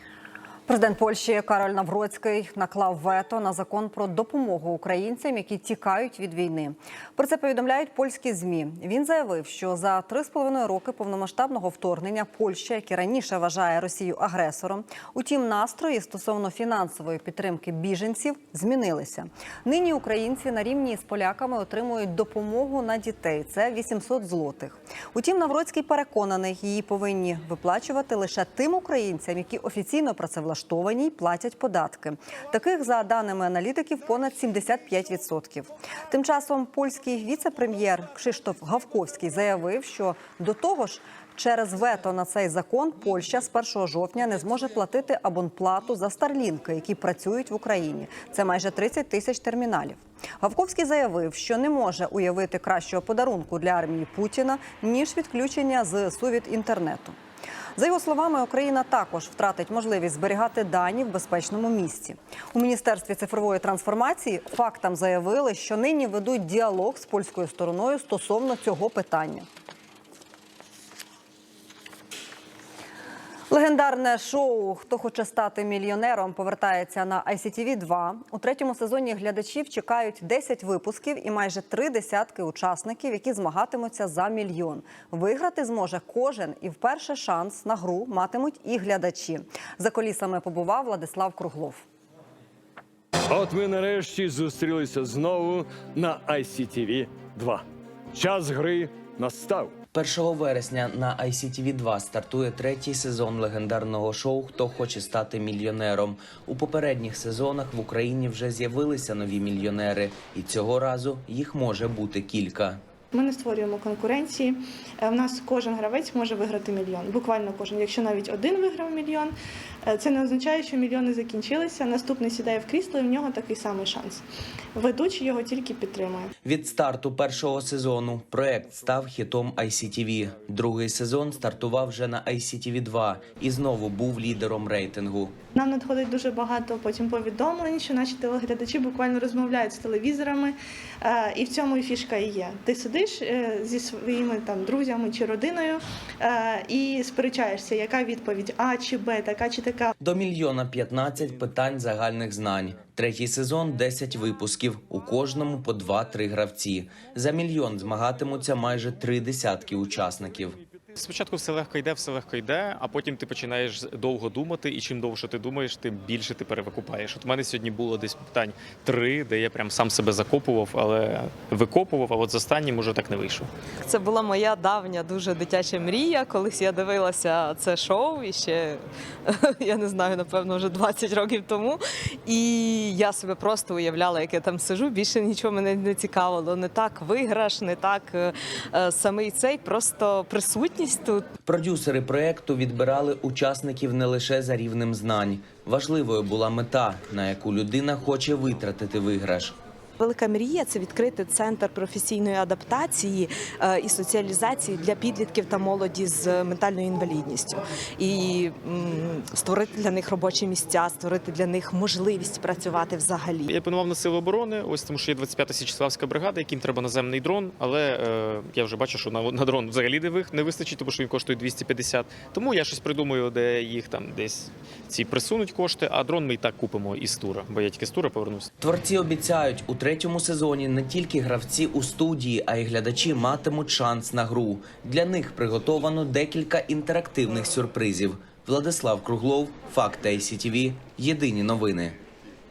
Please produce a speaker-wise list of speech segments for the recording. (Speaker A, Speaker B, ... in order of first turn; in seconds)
Speaker A: 0.7-57.2, 57.8-69.5, 73.5-91.8
Speaker B: 93.3-99.7
Speaker C: 99.9-112.8, 126.4-135.3, 150.0-160.6, 191.4-199.6, 228.6-242.0
Speaker D: 113.1-119.3, 119.8-126.3, 135.5-149.9
Speaker E: 160.9-173.5, 213.5-228.5
Speaker F: 173.8-191.3, 200.0-213.5